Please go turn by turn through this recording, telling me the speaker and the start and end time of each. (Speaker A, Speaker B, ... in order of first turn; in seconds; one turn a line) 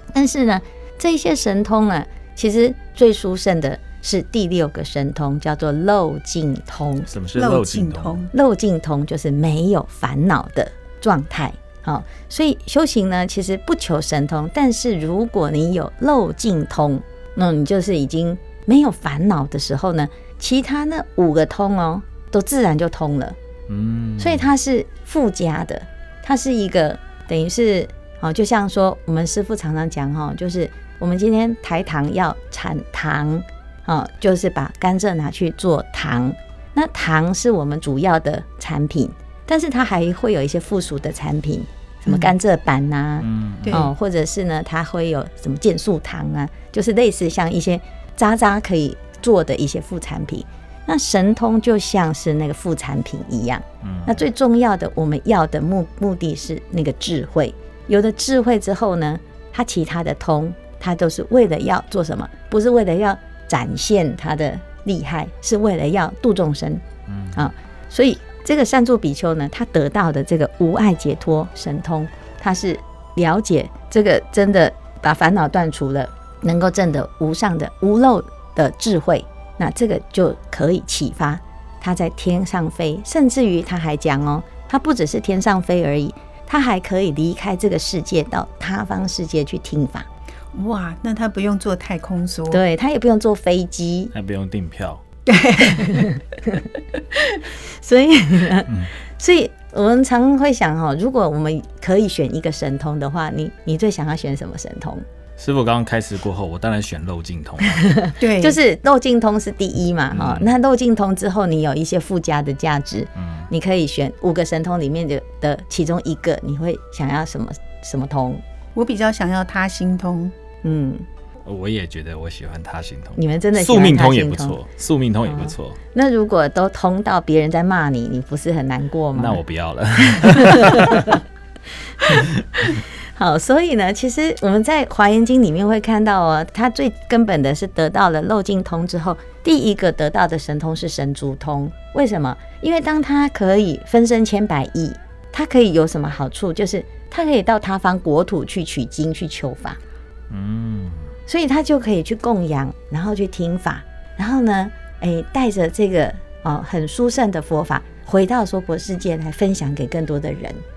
Speaker A: 0.1-7.1
Speaker B: 7.1-8.2
Speaker C: 7.3-8.3
Speaker A: 8.3-23.4
Speaker B: 23.7-24.5
Speaker A: 24.2-90.1
Speaker B: 43.2-43.9
Speaker C: 43.6-43.9
Speaker B: 53.8-54.2
Speaker B: 67.1-67.5
Speaker C: 90.5-92.6
Speaker A: 92.5-94.1
Speaker B: 94.1-95.0
Speaker C: 95.3-96.1
Speaker A: 95.8-105.0
Speaker B: 105.4-107.9
Speaker A: 107.8-118.4
Speaker C: 108.2-108.6
Speaker B: 110.1-110.5
Speaker B: 113.2-113.5
Speaker C: 118.8-120.3
Speaker A: 120.6-121.0
Speaker B: 121.5-125.8
Speaker A: 123.2-124.6
Speaker A: 125.3-129.4
Speaker B: 129.1-131.2
Speaker A: 130.4-131.2
Speaker A: 132.6-149.8
Speaker B: 150.3-151.1
Speaker A: 151.3-160.6